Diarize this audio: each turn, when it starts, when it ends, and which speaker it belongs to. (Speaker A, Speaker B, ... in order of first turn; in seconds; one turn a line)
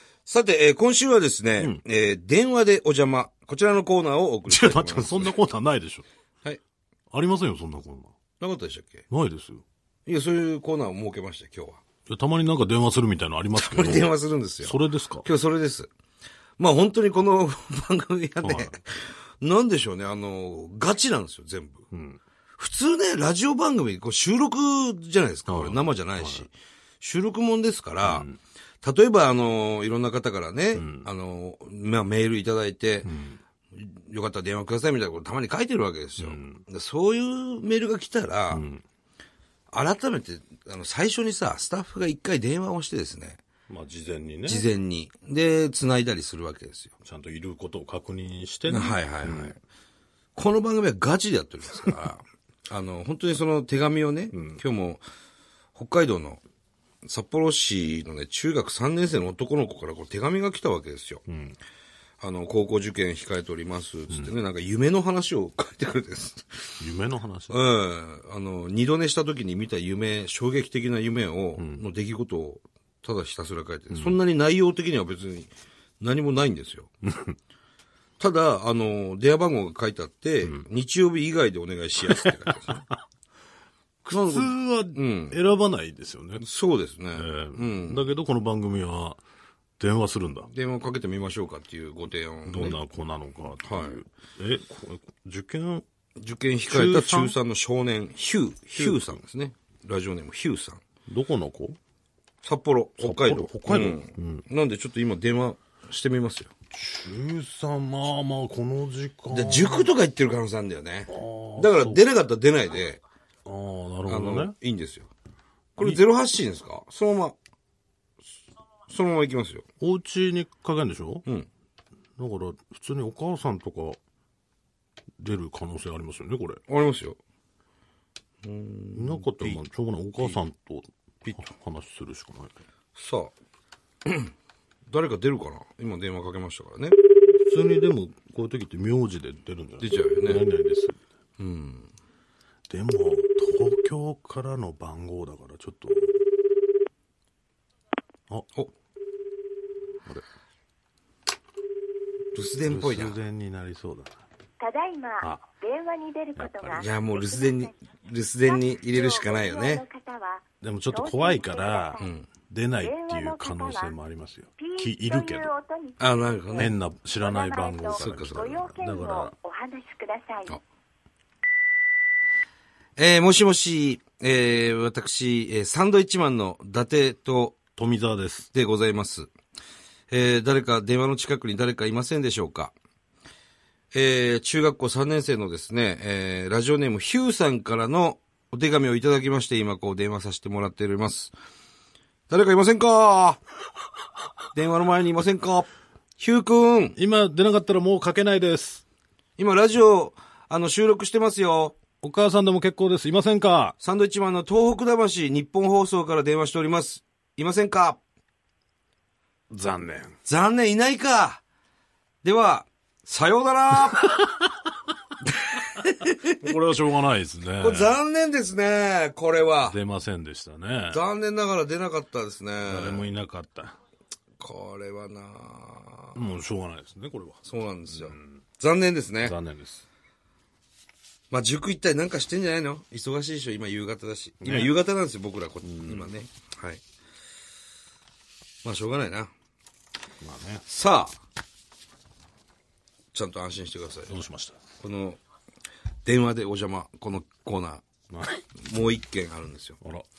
Speaker A: 0.2-5.3
Speaker B: 4.5-6.0
Speaker B: 7.1-8.1
Speaker A: 8.4-9.0
Speaker B: 9.1-9.6
Speaker A: 10.1-11.8
Speaker B: 12.1-15.3
Speaker A: 13.5-15.9
Speaker A: 16.6-21.9
Speaker B: 18.4-18.8
Speaker B: 21.9-22.2
Speaker A: 22.6-28.3
Speaker B: 25.5-26.5
Speaker B: 28.0-28.4
Speaker A: 28.8-33.1
Speaker B: 30.7-31.1
Speaker B: 33.0-33.4
Speaker A: 33.7-38.6
Speaker B: 36.2-36.6
Speaker B: 38.5-38.8
Speaker A: 39.7-43.4
Speaker B: 43.7-44.6
Speaker A: 44.5-46.9
Speaker B: 47.0-49.6
Speaker A: 48.7-49.6
Speaker A: 50.3-55.0
Speaker B: 54.3-54.6
Speaker A: 55.7-56.4
Speaker A: 57.0-61.2
Speaker B: 61.3-61.6
Speaker A: 62.2-66.8
Speaker B: 66.8-67.7
Speaker A: 67.5-75.5
Speaker B: 71.6-71.8
Speaker B: 73.9-74.2
Speaker A: 76.0-76.9
Speaker B: 77.0-77.3
Speaker A: 78.2-82.9
Speaker B: 82.1-82.7
Speaker A: 84.0-85.4
Speaker B: 84.1-86.4
Speaker A: 86.4-88.1
Speaker B: 87.1-89.2
Speaker B: 89.8-90.5
Speaker A: 90.5-92.8
Speaker B: 92.4-95.8
Speaker A: 93.6-94.0
Speaker A: 96.2-100.8
Speaker B: 96.7-97.3
Speaker B: 98.8-99.2
Speaker B: 101.0-101.8
Speaker A: 102.4-106.5
Speaker B: 103.0-104.5
Speaker B: 106.7-109.9
Speaker A: 109.3-113.0
Speaker B: 111.1-112.0
Speaker B: 113.4-114.5
Speaker A: 114.0-115.1
Speaker A: 115.8-117.3
Speaker A: 118.9-119.6
Speaker B: 119.8-121.2
Speaker B: 122.2-124.0
Speaker B: 125.2-126.6
Speaker A: 126.7-127.2
Speaker A: 128.4-129.6
Speaker B: 128.9-132.6
Speaker A: 132.9-133.3
Speaker A: 134.0-134.3
Speaker A: 134.9-137.0
Speaker B: 137.3-141.0
Speaker A: 139.8-140.4
Speaker A: 141.4-141.9
Speaker B: 142.7-146.2
Speaker A: 152.3-153.2
Speaker B: 152.7-154.2
Speaker C: 154.6-157.7
Speaker B: 156.3-156.8
Speaker A: 156.8-159.8
Speaker C: 158.4-162.1
Speaker B: 160.6-165.5
Speaker A: 162.0-162.3
Speaker C: 162.8-163.9
Speaker C: 164.6-170.6
Speaker A: 166.0-166.7
Speaker B: 166.6-169.3
Speaker A: 167.9-168.6
Speaker A: 173.0-177.6
Speaker B: 177.7-178.5
Speaker A: 178.5-179.3
Speaker A: 180.1-182.7
Speaker A: 183.9-191.3
Speaker A: 192.3-193.4
Speaker A: 194.5-196.9
Speaker B: 196.9-198.8
Speaker A: 199.4-201.8
Speaker B: 202.0-203.7
Speaker A: 203.8-208.0
Speaker B: 209.5-210.2
Speaker A: 210.2-211.4
Speaker A: 212.2-214.2
Speaker B: 214.2-214.5
Speaker A: 215.4-216.5
Speaker B: 216.3-218.0
Speaker A: 217.6-219.8
Speaker B: 219.6-221.0
Speaker A: 220.9-223.1
Speaker B: 222.6-223.8
Speaker A: 224.4-226.2
Speaker B: 226.1-228.4
Speaker A: 227.4-229.3
Speaker B: 229.2-229.8
Speaker A: 231.3-236.8
Speaker B: 234.4-234.7
Speaker B: 235.6-236.1
Speaker A: 238.6-239.3
Speaker B: 240.2-240.6
Speaker A: 240.7-241.1
Speaker A: 243.1-244.2
Speaker B: 244.1-244.6
Speaker A: 244.8-245.2
Speaker A: 246.0-247.8
Speaker B: 248.1-248.4
Speaker A: 248.6-249.8